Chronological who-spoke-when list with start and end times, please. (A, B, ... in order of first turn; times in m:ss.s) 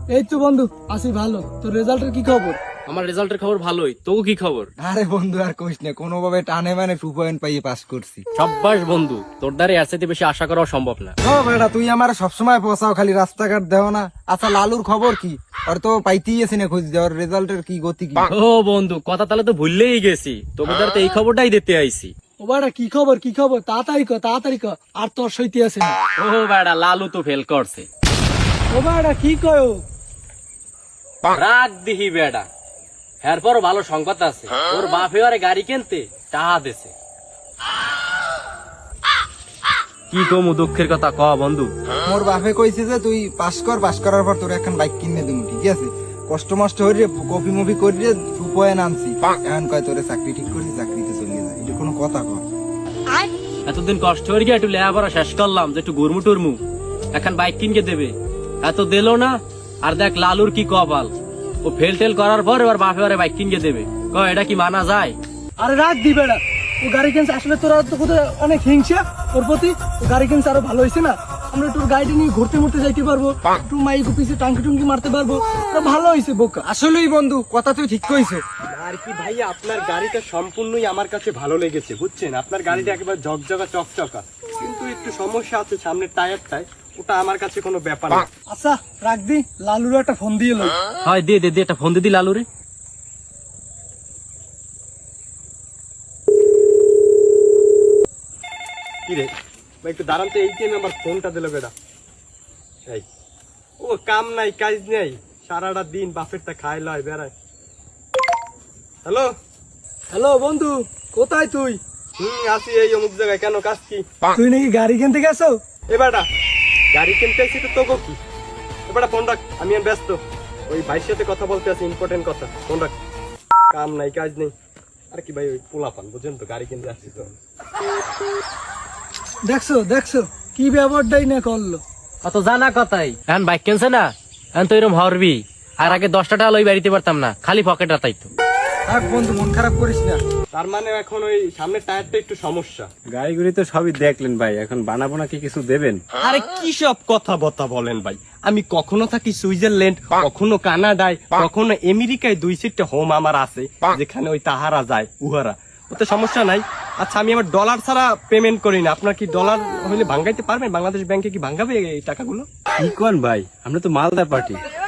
0:00.1-0:02.6 A
0:02.9-0:04.7 B
0:04.8-0:08.2 C
0:08.3-0:11.1 B
0:11.2-0:18.3 C
0:18.3-0:22.1 B
0:22.5-0:26.0 A
0:26.2-0:27.9 B
0:28.8-0:29.8 A
0:31.3-0:32.5 B
0:33.2-0:36.9 B
0:40.1-0:41.7 B
0:42.0-0:52.4 C
0:53.6-0:56.6 B
0:57.1-1:01.1 B
1:01.6-1:05.2 B
1:05.6-1:16.6 A
1:16.6-1:18.4 C
1:18.7-1:28.3 D
1:28.5-1:30.8 A
1:31.0-1:32.4 B
1:39.0-1:39.3 D
1:39.8-1:41.7 D
1:43.8-1:47.3 D
1:49.0-1:49.3 D
1:50.1-1:51.8 A
1:52.2-1:54.0 D
1:54.4-1:55.5 A
1:55.9-1:56.3 D
1:56.9-1:58.2 D
1:58.9-2:02.9 D
2:03.7-2:04.5 D
2:05.1-2:07.3 D
2:09.5-2:11.8 A
2:12.2-2:18.3 B
2:18.9-2:20.2 C
2:20.5-2:22.9 D
2:23.1-2:26.0 E
2:26.2-2:42.5 D
2:42.8-2:44.6 E